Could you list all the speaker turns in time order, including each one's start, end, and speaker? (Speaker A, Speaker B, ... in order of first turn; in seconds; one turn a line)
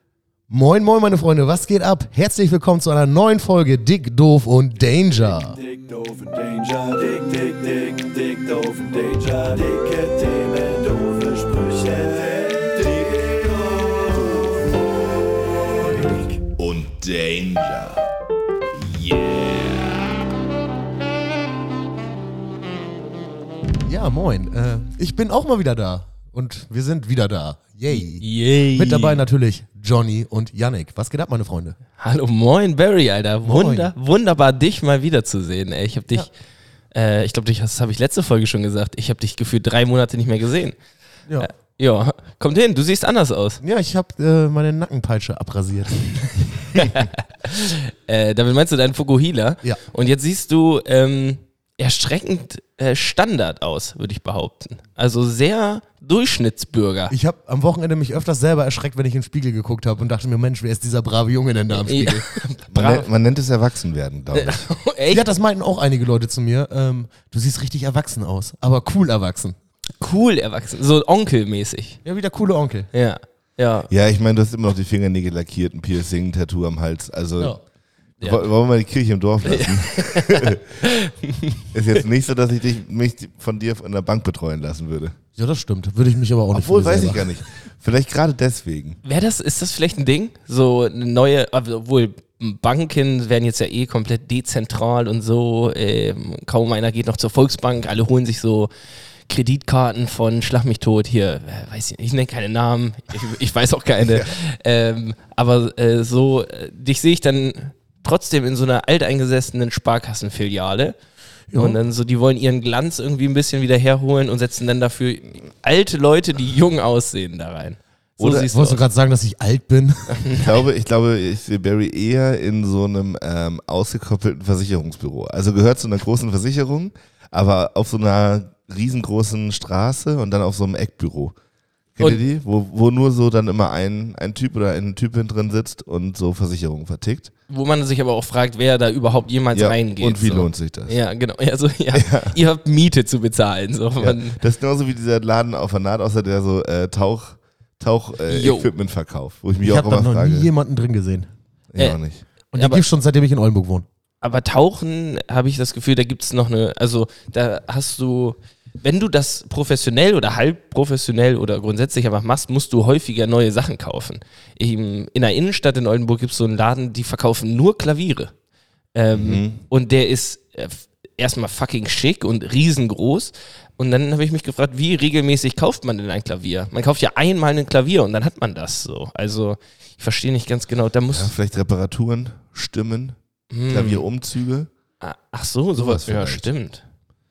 Speaker A: 0.5-5.6
Speaker B: 5.5-14.7
Speaker C: 16.0-18.1
Speaker C: 18.8-19.8
Speaker A: 23.8-31.8
Speaker D: 27.9-29.2
Speaker D: 32.0-36.3
Speaker A: 33.4-33.9
Speaker D: 36.9-40.8
Speaker D: 41.4-43.6
Speaker A: 43.6-47.0
Speaker D: 46.7-57.1
Speaker A: 57.1-62.3
Speaker D: 61.8-63.1
Speaker C: 62.7-64.6
Speaker D: 64.3-65.3
Speaker A: 65.1-69.6
Speaker D: 70.0-72.0
Speaker A: 72.0-72.9
Speaker D: 72.9-73.9
Speaker C: 73.9-77.6
Speaker D: 78.2-78.5
Speaker C: 78.2-80.6
Speaker D: 79.4-82.0
Speaker C: 81.7-85.2
Speaker A: 85.4-87.2
Speaker C: 86.5-89.0
Speaker D: 89.0-98.7
Speaker D: 99.3-111.0
Speaker C: 104.0-104.3
Speaker A: 111.5-111.8
Speaker D: 111.6-118.8
Speaker A: 118.3-120.2
Speaker D: 120.1-120.7
Speaker C: 120.3-131.3
Speaker C: 132.0-137.3
Speaker D: 137.5-144.4
Speaker C: 139.5-141.0
Speaker C: 141.9-142.4
Speaker C: 144.0-150.5
Speaker D: 148.3-148.7
Speaker A: 149.6-151.3
Speaker C: 151.7-152.3
Speaker A: 152.5-153.9
Speaker D: 152.5-152.8
Speaker D: 154.2-168.3
Speaker D: 168.9-181.3
Speaker C: 169.1-169.6
Speaker C: 181.1-183.2
Speaker D: 183.5-184.1
Speaker C: 183.7-184.7
Speaker D: 185.0-186.8
Speaker C: 185.8-186.5